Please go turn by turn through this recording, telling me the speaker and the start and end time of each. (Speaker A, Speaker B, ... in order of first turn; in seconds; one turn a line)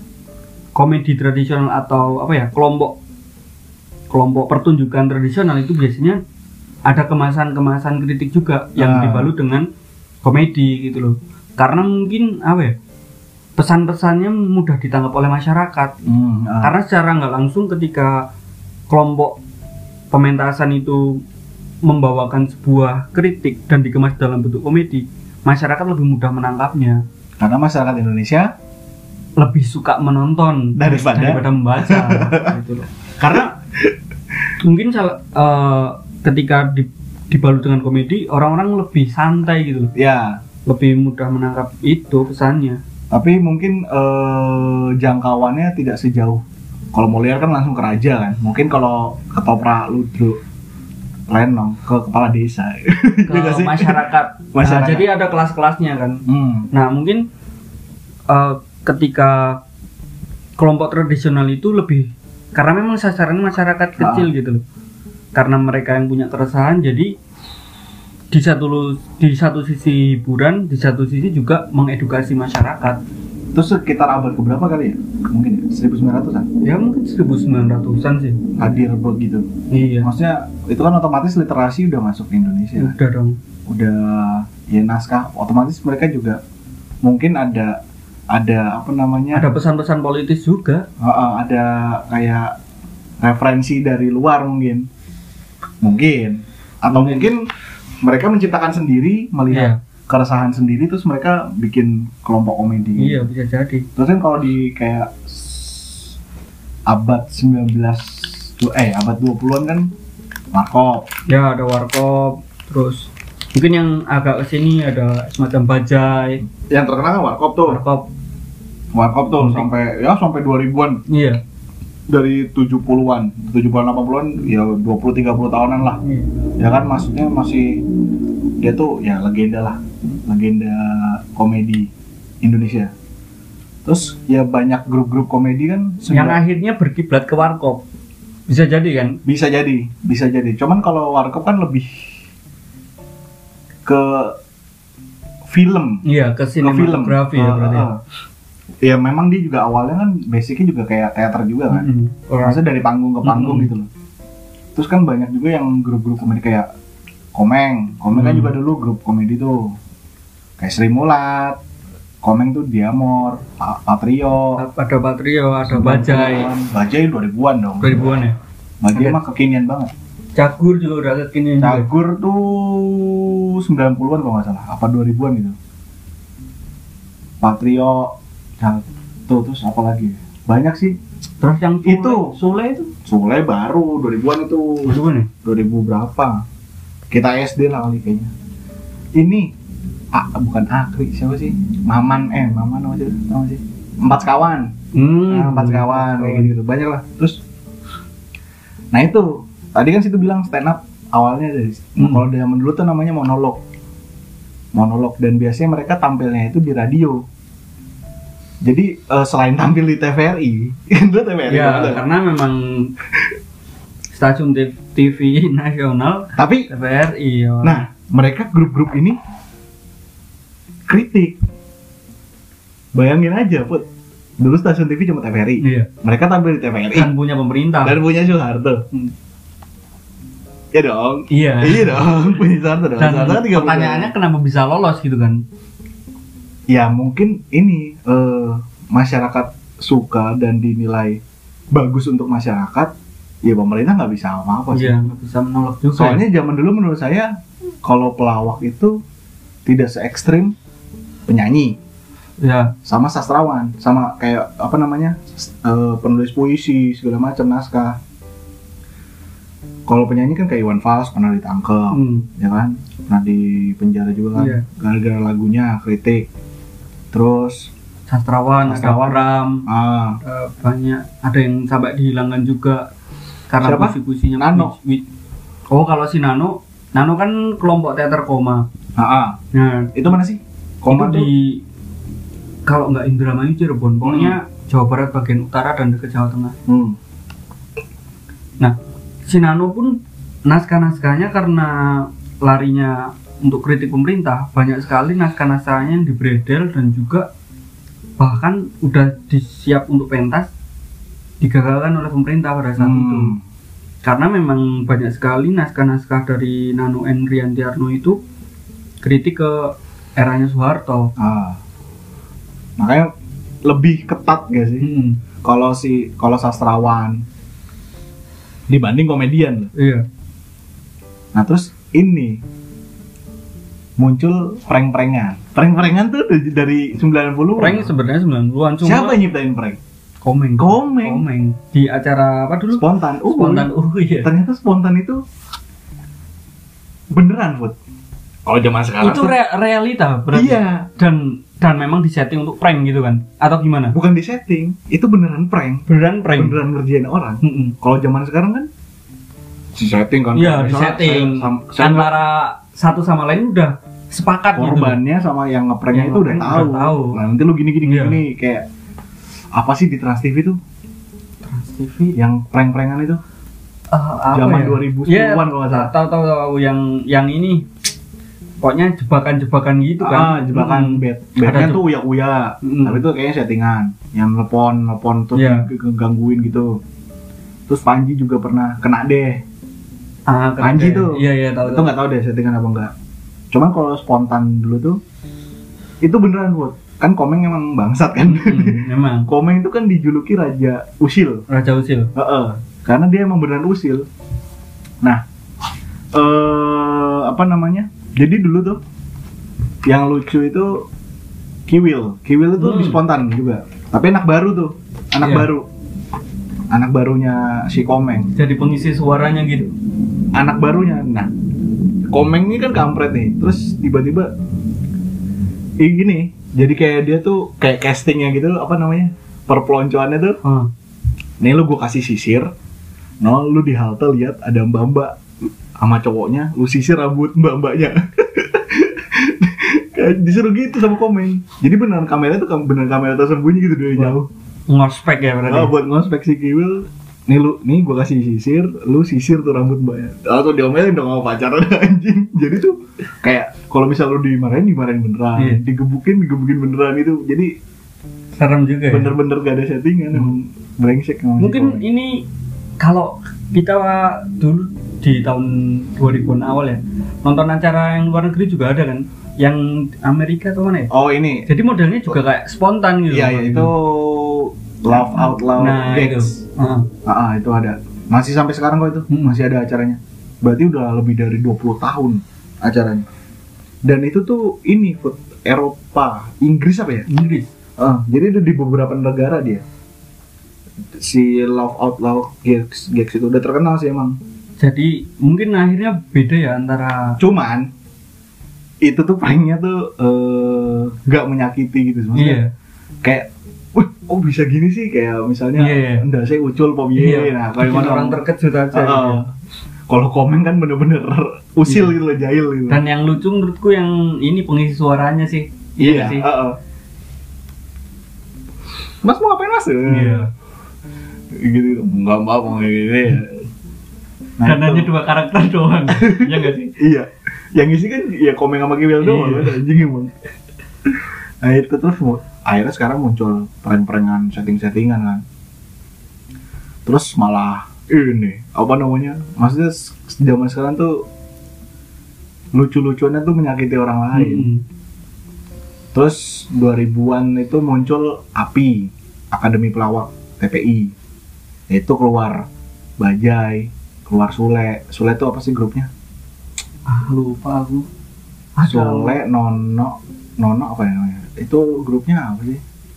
Speaker A: 0.7-3.0
Speaker A: 4.1-6.2
Speaker A: 6.8-9.7
Speaker B: 8.8-9.3
Speaker A: 10.2-12.8
Speaker A: 13.6-15.9
Speaker B: 16.0-16.7
Speaker A: 16.6-18.2
Speaker A: 18.9-19.4
Speaker A: 20.1-21.2
Speaker A: 21.8-27.0
Speaker B: 27.4-28.5
Speaker A: 29.4-33.5
Speaker B: 30.8-32.5
Speaker B: 33.3-33.9
Speaker A: 34.6-39.9
Speaker B: 39.9-40.4
Speaker A: 40.6-42.8
Speaker B: 43.1-46.4
Speaker B: 46.9-50.4
Speaker B: 51.3-55.1
Speaker A: 53.3-57.3
Speaker B: 56.3-56.7
Speaker A: 58.3-59.6
Speaker A: 60.6-64.6
Speaker B: 64.0-64.3
Speaker A: 65.3-67.2
Speaker A: 68.3-73.0
Speaker B: 73.5-76.5
Speaker A: 76.6-78.5
Speaker B: 78.6-79.5
Speaker A: 79.7-80.1
Speaker B: 80.0-82.9
Speaker A: 82.8-83.4
Speaker B: 83.7-86.4
Speaker B: 87.0-87.8
Speaker B: 88.3-89.5
Speaker A: 89.3-90.9
Speaker B: 91.0-92.5
Speaker B: 93.2-94.9
Speaker B: 95.8-97.5
Speaker A: 96.9-97.3
Speaker B: 98.0-103.2
Speaker A: 99.5-99.8
Speaker A: 103.0-103.9
Speaker B: 104.0-106.1
Speaker B: 106.9-109.9
Speaker B: 110.5-111.1
Speaker A: 111.3-116.4
Speaker B: 116.6-117.8
Speaker A: 117.7-118.1
Speaker B: 118.9-121.0
Speaker A: 119.4-119.7
Speaker A: 121.1-121.4
Speaker B: 122.1-126.0
Speaker A: 126.0-126.3
Speaker B: 126.6-127.8
Speaker B: 128.6-131.9
Speaker B: 132.4-132.9
Speaker B: 133.8-136.4
Speaker A: 136.1-137.8
Speaker A: 138.5-139.2
Speaker B: 139.2-142.2
Speaker B: 143.8-144.4
Speaker B: 145.5-146.0
Speaker A: 146.0-147.9
Speaker B: 146.6-148.0
Speaker B: 148.8-151.9
Speaker A: 151.7-152.6
Speaker B: 152.4-153.9
Speaker A: 153.2-153.7
Speaker B: 154.7-156.7
Speaker B: 157.3-159.8
Speaker A: 158.1-158.5
Speaker B: 160.6-161.6
Speaker B: 162.2-164.6
Speaker A: 164.6-166.5
Speaker B: 165.7-167.9
Speaker A: 167.8-168.3
Speaker B: 168.8-169.9
Speaker A: 168.9-169.2
Speaker A: 170.3-171.8
Speaker B: 171.6-175.5
Speaker B: 177.4-181.0
Speaker A: 181.4-182.9
Speaker B: 181.8-182.3
Speaker B: 183.0-186.4
Speaker A: 184.8-185.3
Speaker B: 187.1-188.3
Speaker B: 189.1-189.5
Speaker B: 190.1-194.7
Speaker A: 194.9-196.5
Speaker B: 195.3-197.4
Speaker B: 198.9-203.6
Speaker A: 202.0-202.2
Speaker B: 204.7-207.2
Speaker B: 208.6-212.0
Speaker A: 211.5-212.9
Speaker A: 214.1-217.8
Speaker B: 216.3-216.7
Speaker B: 217.6-219.2
Speaker B: 220.9-221.4
Speaker B: 222.9-223.9
Speaker B: 224.4-227.1
Speaker A: 225.6-225.9
Speaker A: 226.9-228.0
Speaker B: 227.8-228.8
Speaker B: 230.7-234.1
Speaker A: 231.3-232.4
Speaker A: 233.0-235.4
Speaker B: 236.7-241.2
Speaker B: 241.7-242.9
Speaker B: 243.4-245.0
Speaker A: 244.7-246.2
Speaker B: 245.9-247.3
Speaker B: 247.8-249.0
Speaker B: 249.7-250.5
Speaker B: 251.3-251.8
Speaker A: 252.4-252.7
Speaker B: 252.8-258.0
Speaker B: 259.9-266.3
Speaker A: 261.9-262.3
Speaker A: 264.4-264.6
Speaker B: 267.1-267.7
Speaker A: 268.1-269.7
Speaker B: 268.6-270.2
Speaker A: 270.2-272.9
Speaker A: 273.5-275.0
Speaker B: 273.6-274.7
Speaker A: 275.7-278.6
Speaker B: 279.0-279.4
Speaker A: 279.5-280.1
Speaker B: 279.9-281.3
Speaker A: 280.9-281.6
Speaker A: 282.6-286.6
Speaker B: 284.0-284.4
Speaker B: 286.7-287.0
Speaker A: 288.6-297.3
Speaker A: 298.2-300.5
Speaker A: 301.4-303.3
Speaker B: 302.8-303.4
Speaker A: 304.0-308.2
Speaker A: 309.0-311.1
Speaker B: 311.2-311.6
Speaker B: 312.8-313.1
Speaker B: 313.6-314.9
Speaker A: 314.8-315.2
Speaker B: 315.4-317.2
Speaker B: 318.7-319.7
Speaker A: 319.7-320.1
Speaker B: 321.3-322.4
Speaker B: 324.0-327.9
Speaker A: 327.6-329.2
Speaker B: 328.8-329.8
Speaker A: 330.2-334.3
Speaker B: 330.6-331.2
Speaker B: 332.7-333.7
Speaker B: 334.2-335.2
Speaker B: 337.1-337.8
Speaker B: 338.4-339.3
Speaker A: 339.0-344.0
Speaker B: 340.3-340.9
Speaker B: 343.9-348.7
Speaker A: 345.9-346.6
Speaker A: 347.4-347.8
Speaker B: 349.7-352.1
Speaker A: 350.3-355.0
Speaker B: 354.5-358.6
Speaker A: 355.9-357.2
Speaker A: 357.8-358.2
Speaker B: 359.5-360.6
Speaker A: 361.4-362.1
Speaker B: 362.1-363.2
Speaker A: 363.9-367.7
Speaker B: 364.3-365.9
Speaker A: 368.6-371.9
Speaker B: 370.0-376.8
Speaker A: 372.6-373.0
Speaker A: 375.3-375.7
Speaker B: 377.7-379.4
Speaker A: 380.3-381.9
Speaker B: 380.6-382.9
Speaker B: 383.5-385.0
Speaker B: 386.0-391.4
Speaker A: 388.2-389.3
Speaker A: 391.5-392.1
Speaker B: 392.1-394.1
Speaker B: 396.1-398.8
Speaker B: 399.9-400.9
Speaker B: 401.7-405.7
Speaker A: 402.6-403.0
Speaker A: 405.2-405.5
Speaker B: 406.7-408.3
Speaker A: 408.3-409.7
Speaker B: 410.3-411.3
Speaker B: 412.1-414.3
Speaker B: 415.8-420.4
Speaker A: 420.4-420.7
Speaker B: 421.4-422.5
Speaker B: 423.2-425.2
Speaker B: 425.8-434.3
Speaker A: 434.7-435.7
Speaker B: 435.4-447.5
Speaker A: 445.4-445.6
Speaker A: 448.3-449.1
Speaker B: 448.9-451.8
Speaker A: 451.4-452.2
Speaker A: 452.8-460.9
Speaker B: 460.9-461.5
Speaker A: 461.5-463.7
Speaker B: 463.1-466.4
Speaker A: 465.6-466.9
Speaker B: 467.0-473.0
Speaker A: 469.1-469.4
Speaker B: 473.9-477.1
Speaker A: 477.1-477.5
Speaker B: 477.8-479.6
Speaker B: 480.9-484.2
Speaker A: 484.6-487.2
Speaker B: 487.2-487.7
Speaker B: 488.8-492.4
Speaker A: 492.1-492.5
Speaker B: 493.0-498.2
Speaker A: 495.6-496.1
Speaker A: 496.9-499.2
Speaker B: 498.7-499.3
Speaker B: 499.9-502.8
Speaker A: 501.6-502.0
Speaker A: 502.7-506.3
Speaker B: 505.8-506.6
Speaker B: 509.0-510.3
Speaker A: 509.9-510.3
Speaker B: 511.3-513.5
Speaker B: 514.4-514.9
Speaker A: 514.4-516.7
Speaker B: 515.9-520.1
Speaker A: 519.0-519.6
Speaker B: 520.9-525.2
Speaker B: 526.9-531.0
Speaker B: 532.5-534.5
Speaker A: 534.1-534.6
Speaker B: 535.9-540.9
Speaker B: 541.7-542.5
Speaker B: 543.0-545.9
Speaker A: 546.9-547.9
Speaker A: 548.6-549.2
Speaker B: 548.6-552.6